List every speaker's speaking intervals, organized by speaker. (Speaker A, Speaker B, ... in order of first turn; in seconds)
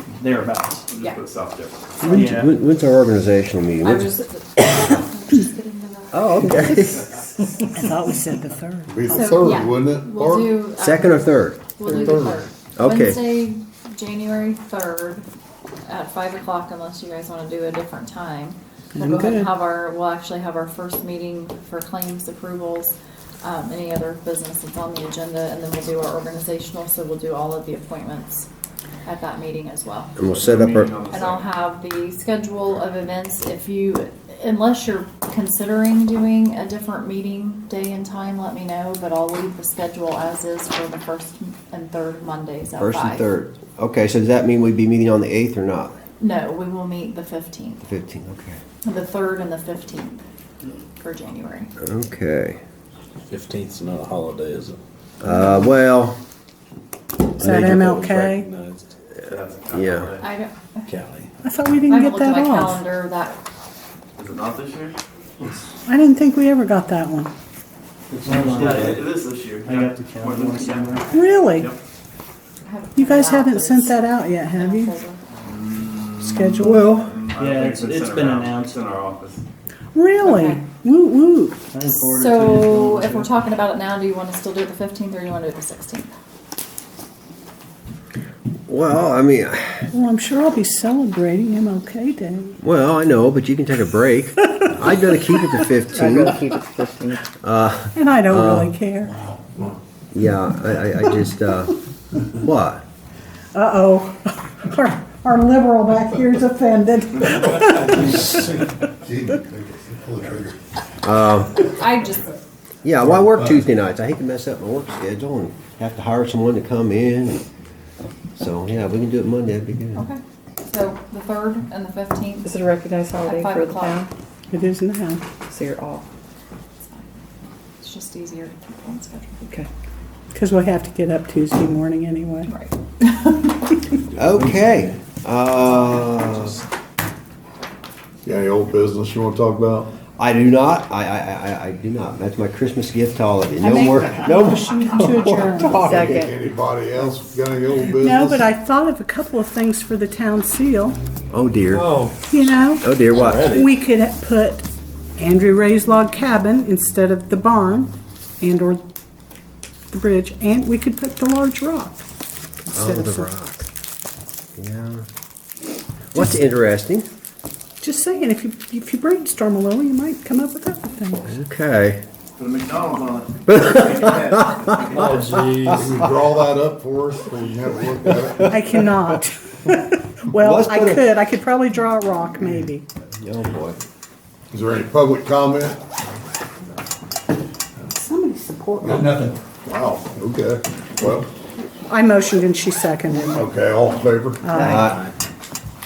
Speaker A: 0.2-0.8, 2.1-2.5, 68.2-69.1, 69.6-71.1, 77.3-78.8, 81.7-83.4, 175.3-175.6
Speaker B: 0.9-2.1, 30.3-31.5, 59.2-60.2, 64.2-65.0, 68.4-71.8, 75.4-79.4, 172.4-175.2
Speaker C: 2.0-4.2, 6.1-7.0, 10.8-11.8, 12.7-13.2, 30.2-30.9, 42.8-46.0, 47.8-48.6, 51.8-52.6, 55.2-56.2, 57.5-57.9, 59.7-60.1, 76.6-77.2, 88.7-89.8, 92.6-96.5, 97.4-98.7, 100.1-101.8, 102.3-102.8, 111.0-111.7, 112.8-117.4, 118.4-120.1, 134.2-136.6, 140.2-145.9, 151.3-151.9, 152.8-153.6, 162.7-163.7, 164.6-165.1, 166.1-167.1, 171.2-172.0, 173.5-176.2, 178.0-178.7, 180.4-181.1, 183.2-183.8, 194.6-195.1
Speaker D: 3.8-7.0, 9.1-15.2, 15.8-28.5, 29.1-30.1, 31.1-43.3, 46.2-47.8, 48.8-50.2, 51.0-51.7, 60.2-60.9, 61.9-63.4, 72.6-75.2, 81.9-86.1, 111.6-112.3, 119.9-122.5, 123.2-124.0, 126.8-127.1, 127.8-129.5, 132.4-133.7
Speaker E: 7.7-9.2, 18.9-19.6, 55.2-55.6, 57.4-58.5, 61.4-62.9, 65.9-67.3, 71.1-71.7, 73.0-74.9, 76.1-77.0, 79.9-81.6, 89.9-92.6, 94.6-95.6, 97.9-99.2, 103.5-108.5, 124.5-125.2, 130.3-132.5, 143.6-145.9, 147.9-151.0, 152.3-154.7, 155.2-158.8, 159.9-162.0, 162.7-163.3, 167.8-171.3, 178.4-182.8, 187.9-189.2, 191.9-193.4, 194.4-194.9
Speaker F: 8.9-10.6, 11.9-12.4, 107.4-110.6, 113.1-113.6, 138.2-139.9, 145.8-148.5, 174.9-178.5, 184.5-185.8, 188.8-191.3, 193.3-194.6
Speaker G: 53.3-54.8, 57.6-58.8, 60.9-61.2
Speaker H: 96.0-97.2, 122.4-124.0, 125.5-126.0, 145.6-146.3